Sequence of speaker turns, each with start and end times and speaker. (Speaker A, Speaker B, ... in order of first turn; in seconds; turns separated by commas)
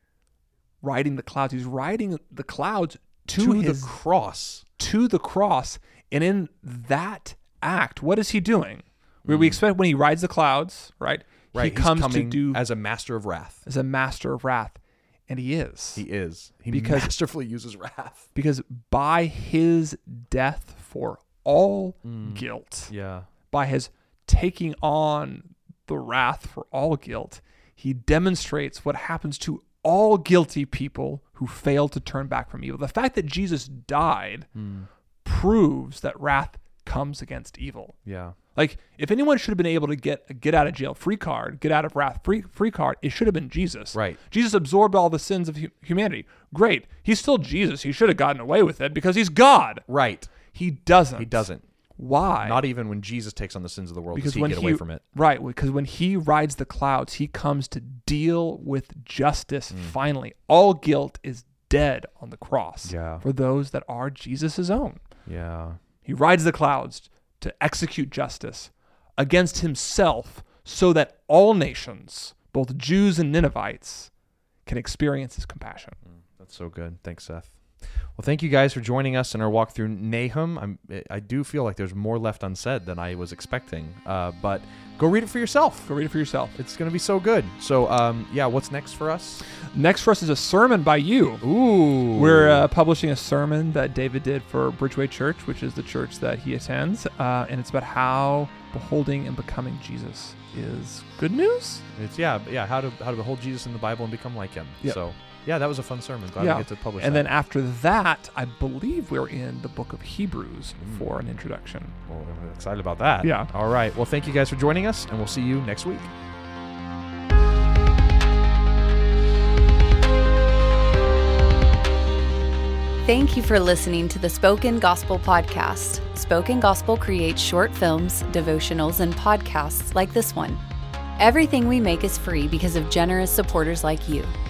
Speaker A: 0.8-3.9, Speaker B: 3.4-4.7, Speaker A: 4.8-12.6, Speaker B: 9.3-9.6, Speaker B: 11.5-13.6, Speaker A: 13.7-16.1, Speaker B: 15.9-18.3, Speaker A: 16.7-17.1, Speaker A: 18.4-22.9, Speaker B: 22.0-23.3, Speaker A: 23.5-34.5, Speaker B: 34.5-34.9, Speaker A: 35.2-38.0, Speaker B: 38.0-38.4, Speaker A: 38.5-49.9, Speaker B: 43.9-44.2, Speaker B: 49.9-50.4, Speaker A: 50.5-51.5, Speaker B: 51.2-51.7, Speaker A: 52.0-52.6, Speaker B: 52.4-55.0, Speaker A: 54.1-65.0, Speaker B: 59.7-60.0, Speaker B: 62.8-63.2, Speaker B: 65.3-65.8, Speaker A: 66.0-74.1, Speaker A: 74.7-76.0, Speaker B: 76.1-85.9, Speaker A: 85.9-86.6, Speaker B: 86.5-89.4, Speaker A: 89.7-91.4, Speaker B: 91.4-92.7, Speaker A: 92.1-101.9, Speaker B: 101.9-107.3, Speaker A: 106.4-112.0, Speaker B: 110.8-111.1, Speaker B: 112.1-116.1, Speaker A: 113.2-113.5, Speaker C: 123.0-130.6, Speaker C: 131.2-134.3